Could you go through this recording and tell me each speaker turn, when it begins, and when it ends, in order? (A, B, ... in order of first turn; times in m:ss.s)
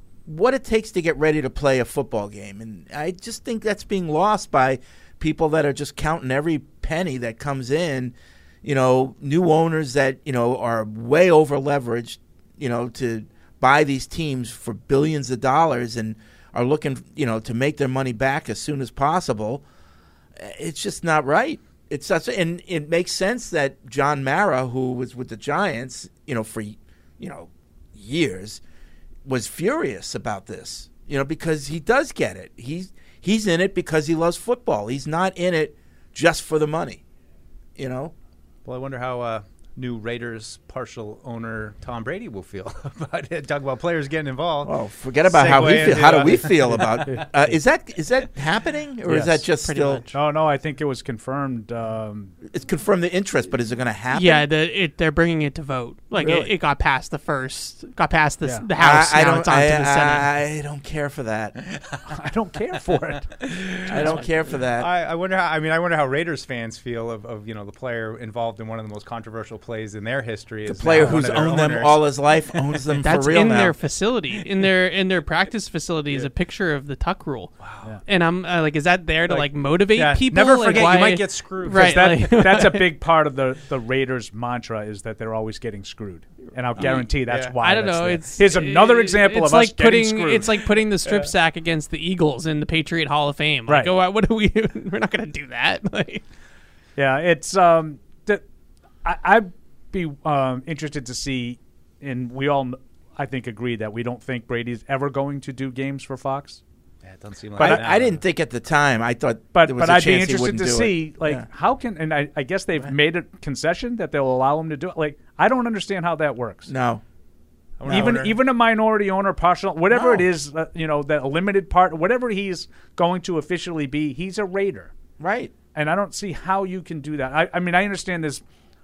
0:00.2-0:19.6 A
0:20.4-0:28.6 A
0:29.2-0:37.0 A
0:37.8-0:38.1 A
0:38.6-0:47.2 B
0:44.6-0:50.1 A
0:49.1-0:49.4 C
0:49.6-0:50.1 D
0:50.1-0:52.3 C
0:52.4-0:54.5 A
0:54.1-1:00.3 D
0:56.2-0:56.5 A
0:58.8-1:01.6 A
1:02.1-1:03.3 C
1:03.4-1:12.8 B
1:03.9-1:04.9 A
1:10.6-1:13.8 A
1:13.0-1:17.5 D
1:17.6-1:17.9 B
1:18.0-1:22.9 D
1:19.3-1:22.2 B
1:21.7-1:30.5 C
1:26.8-1:27.5 B
1:27.6-1:36.2 D
1:31.0-1:31.3 B
1:33.7-1:33.9 C
1:37.0-1:38.4 C
1:39.0-1:46.6 C
1:47.0-1:48.2 B
1:47.6-1:51.4 A
1:47.6-1:47.8 C
1:49.5-1:56.7 C
1:56.7-1:57.0 A
1:57.8-1:58.4 B
1:57.8-1:58.2 A
1:57.9-2:04.9 C
1:59.9-2:00.3 A
2:05.2-2:05.5 A
2:05.7-2:08.4 C